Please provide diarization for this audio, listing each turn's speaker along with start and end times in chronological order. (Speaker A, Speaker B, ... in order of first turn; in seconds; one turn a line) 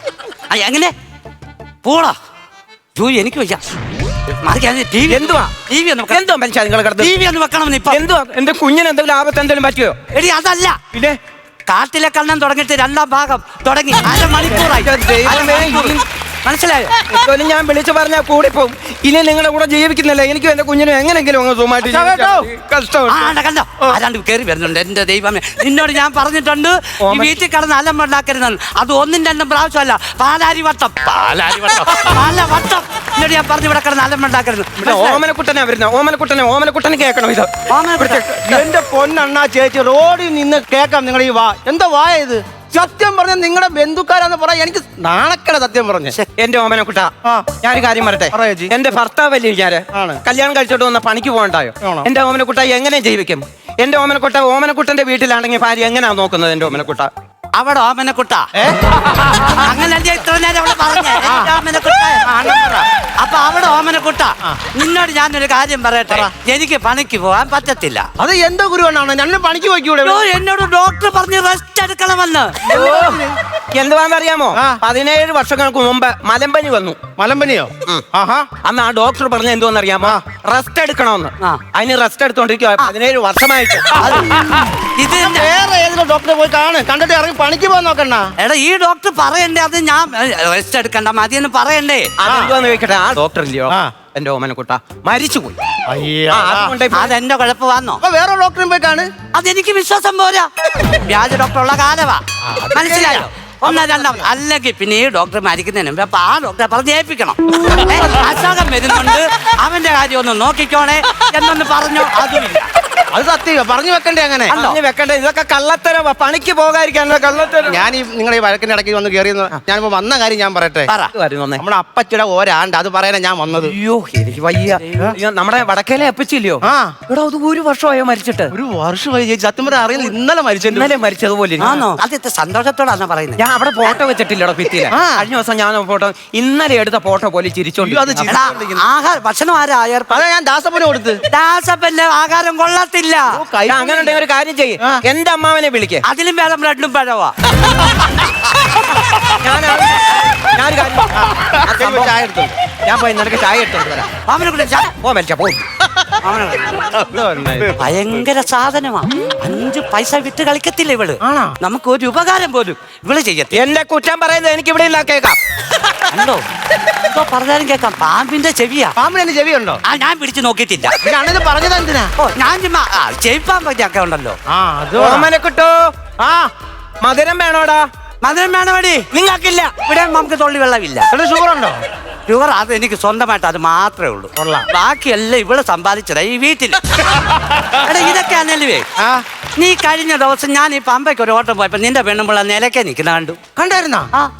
Speaker A: 0.5-0.9
Speaker A: 1.8-2.1
Speaker A: 3.0-3.6
Speaker A: 4.4-6.2
Speaker B: 5.1-5.5
Speaker B: 6.1-7.1
Speaker A: 7.0-8.0
Speaker B: 7.9-10.0
Speaker A: 10.1-10.8
Speaker A: 11.7-16.9
Speaker B: 14.5-16.0
Speaker B: 17.1-23.3
Speaker C: 21.9-22.5
Speaker A: 23.1-35.0
Speaker B: 27.0-27.3
Speaker B: 34.8-38.6
Speaker C: 34.8-35.2
Speaker A: 37.7-38.2
Speaker C: 38.4-46.1
Speaker B: 46.4-57.1
Speaker C: 47.2-47.5
Speaker C: 48.3-48.7
Speaker C: 49.9-50.2
Speaker C: 51.8-52.1
Speaker A: 57.6-58.5
Speaker A: 59.5-62.3
Speaker C: 61.2-61.5
Speaker C: 62.3-62.9
Speaker A: 63.2-68.1
Speaker C: 68.2-70.2
Speaker A: 70.0-72.6
Speaker B: 72.7-73.2
Speaker C: 72.7-73.3
Speaker B: 73.7-77.0
Speaker C: 77.2-78.5
Speaker B: 78.6-84.1
Speaker A: 85.0-85.5
Speaker C: 85.1-88.3
Speaker A: 88.4-92.1
Speaker B: 92.2-95.6
Speaker C: 92.3-92.5
Speaker C: 95.9-96.7
Speaker B: 96.3-97.2
Speaker A: 96.9-98.0
Speaker C: 98.0-99.1
Speaker A: 99.3-102.2
Speaker C: 102.4-104.3
Speaker A: 102.7-112.7
Speaker C: 113.1-114.5
Speaker A: 114.5-114.8
Speaker B: 114.5-117.8
Speaker C: 117.7-120.9
Speaker B: 121.1-121.6
Speaker C: 121.6-123.7
Speaker B: 123.6-128.5
Speaker C: 126.6-127.0
Speaker C: 128.5-130.9
Speaker B: 130.7-131.8
Speaker A: 131.6-133.4
Speaker B: 133.4-138.3
Speaker C: 134.9-135.3
Speaker C: 137.8-138.8
Speaker A: 138.3-140.2
Speaker C: 140.1-141.2
Speaker A: 141.3-143.4
Speaker C: 143.3-144.2
Speaker B: 143.7-146.0
Speaker A: 146.1-147.3
Speaker B: 149.4-151.1
Speaker C: 151.2-152.6
Speaker B: 151.6-152.1
Speaker B: 152.8-154.1
Speaker A: 154.3-154.9
Speaker B: 154.8-155.6
Speaker A: 156.2-156.8
Speaker C: 156.9-157.8
Speaker A: 157.8-163.6
Speaker C: 161.2-161.6
Speaker B: 163.5-165.4
Speaker A: 166.1-166.4
Speaker A: 167.0-169.0
Speaker C: 169.0-169.8
Speaker A: 169.8-170.9
Speaker C: 171.0-172.1
Speaker A: 172.2-174.4
Speaker C: 174.5-175.3
Speaker B: 175.0-175.9
Speaker C: 176.2-176.5
Speaker B: 177.0-177.8
Speaker A: 178.2-179.1
Speaker B: 179.1-179.7
Speaker A: 179.8-181.1
Speaker C: 181.1-181.8
Speaker A: 182.3-186.8
Speaker C: 184.4-184.7
Speaker A: 187.7-188.8
Speaker A: 189.6-193.4
Speaker C: 193.6-194.1